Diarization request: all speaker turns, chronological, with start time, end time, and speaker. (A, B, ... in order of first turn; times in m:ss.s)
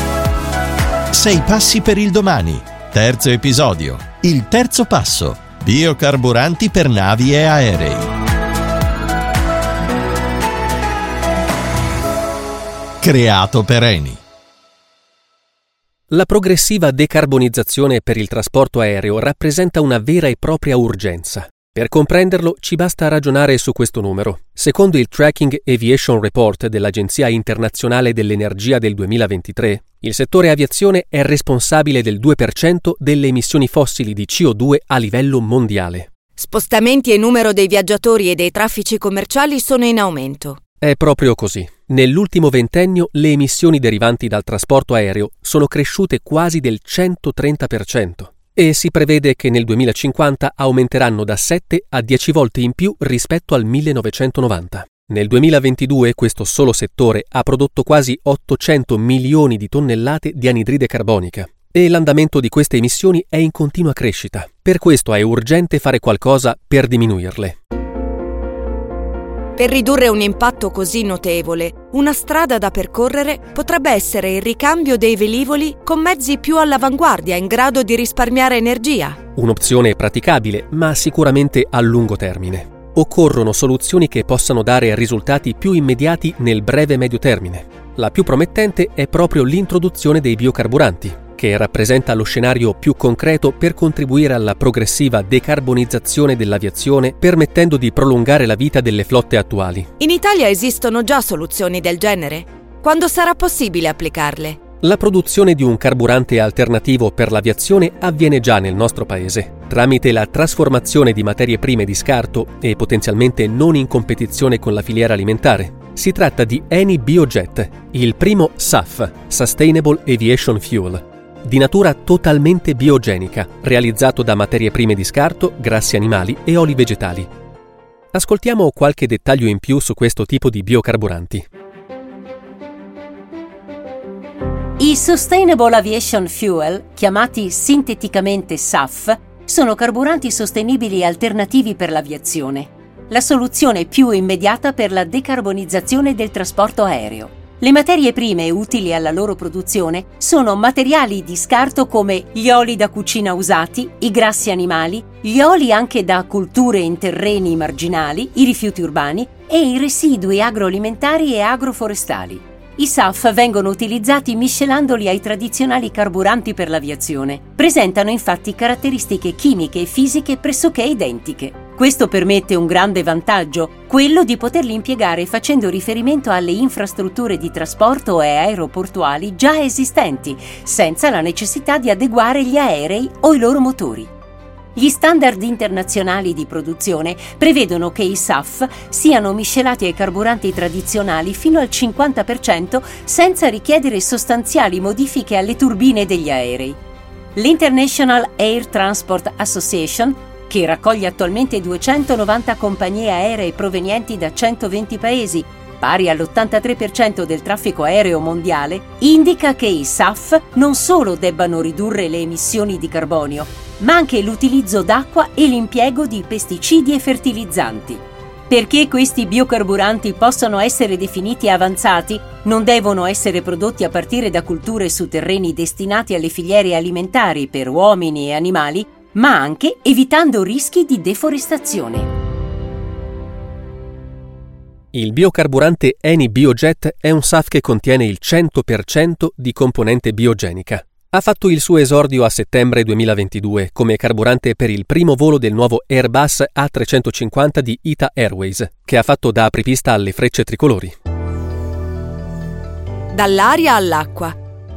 0:01.1-0:08.1 A
0:13.0-0:14.2 A
0:16.1-0:36.1 B
0:36.4-0:40.6 C
0:40.8-1:07.6 B
1:09.6-1:19.2 C
1:19.3-1:39.9 B
1:40.0-1:44.6 C
1:44.8-2:07.3 B
2:08.1-2:11.4 B
2:14.8-3:04.1 D
3:04.8-3:16.8 D
3:17.4-3:52.1 D
3:54.9-4:10.9 B
4:13.1-4:14.4 C